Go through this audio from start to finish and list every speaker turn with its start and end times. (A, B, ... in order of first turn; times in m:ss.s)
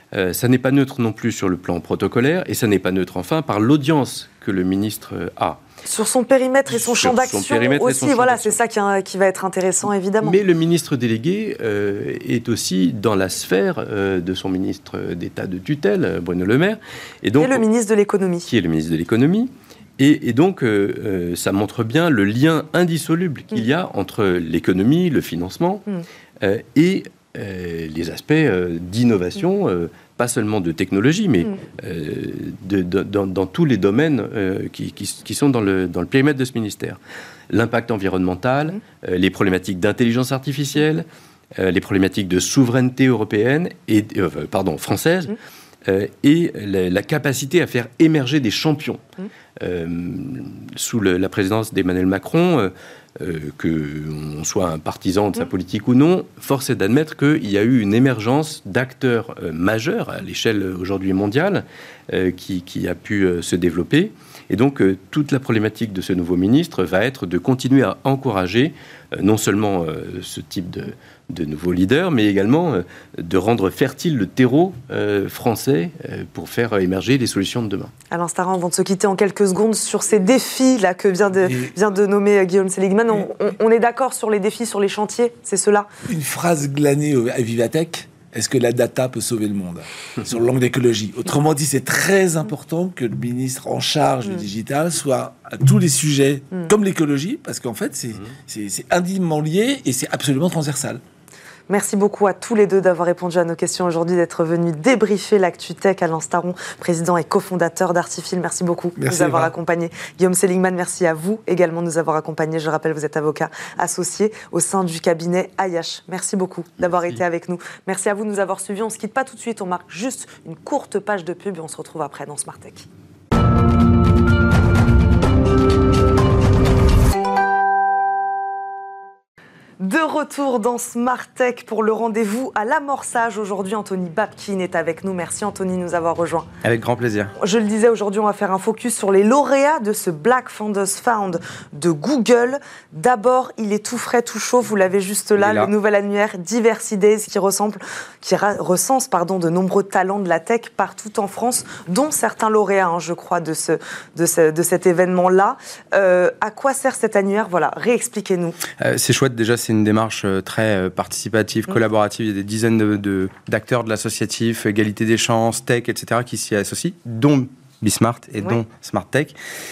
0:00.1-0:05.6 A
0:05.9-0:10.4 B
0:06.7-0:08.6 A
0:10.2-0:17.6 A
0:17.4-0:18.5 B
0:18.5-0:25.9 A
0:26.4-0:37.0 A
0:37.5-0:49.0 A
0:49.6-1:17.9 A
1:18.1-1:25.9 B
1:21.4-1:21.8 C
1:26.1-1:41.0 C
1:41.7-2:02.9 B
1:49.0-1:49.5 C
2:09.8-2:16.5 B
2:16.6-2:17.3 D
2:17.4-2:38.6 B
2:25.4-2:25.7 D
2:38.8-2:49.4 D